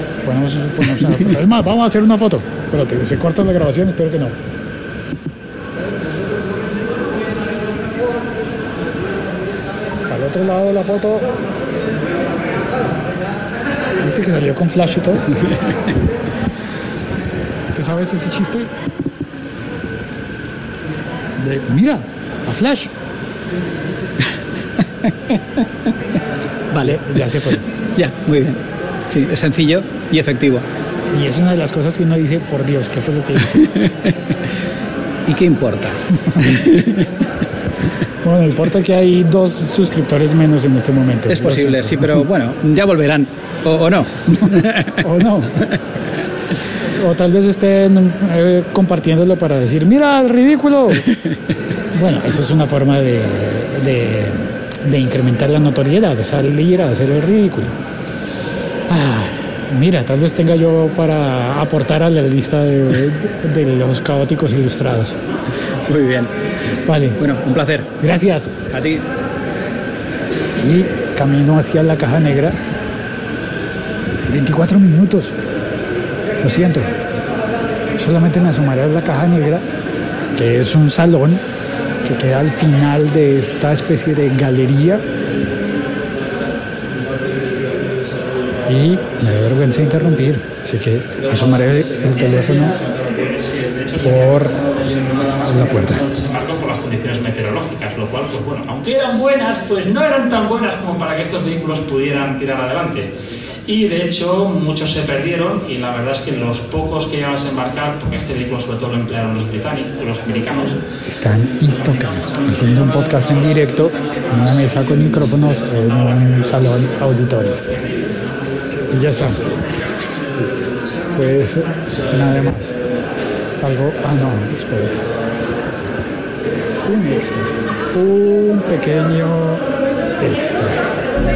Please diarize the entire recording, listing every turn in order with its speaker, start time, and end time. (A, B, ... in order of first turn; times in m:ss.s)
0:00.2-0:04.4 A
0:10.1-0:11.3 A
0:14.0-0:15.3 A
0:17.7-0:18.7 A
0:21.4-0:22.9 A
0:25.0-0:25.9 B
0:26.7-0:27.3 B
0:26.8-0:27.6 A
0:28.0-0:30.6 B
0:31.1-0:33.7 A
0:33.5-0:34.3 B
0:35.3-0:37.1 B
0:38.2-0:42.3 A
0:41.3-0:45.0 B
0:45.0-0:45.6 A
0:47.0-0:51.0 A
0:51.0-0:51.4 B
0:51.9-0:57.8 A
0:58.9-1:05.2 A
1:05.9-1:06.3 B
1:06.8-1:07.2 A
1:07.2-1:07.9 B
1:08.0-1:08.5 A
1:08.7-1:09.0 B
1:10.6-1:12.6 A
1:14.3-1:15.3 A
1:16.4-1:16.9 A
1:18.0-1:19.6 A
1:20.3-1:21.4 A
1:22.0-1:25.0 A
1:28.6-1:32.8 A
1:31.3-1:43.1 C
1:34.0-1:34.6 A
1:35.4-1:36.1 A
1:43.7-1:50.8 C
1:51.1-1:57.6 A
1:52.1-1:53.0 C
1:58.9-1:59.4 A
2:01.1-2:02.8 A
2:03.5-2:05.1 A
2:06.8-2:09.6 A
2:10.2-2:10.8 A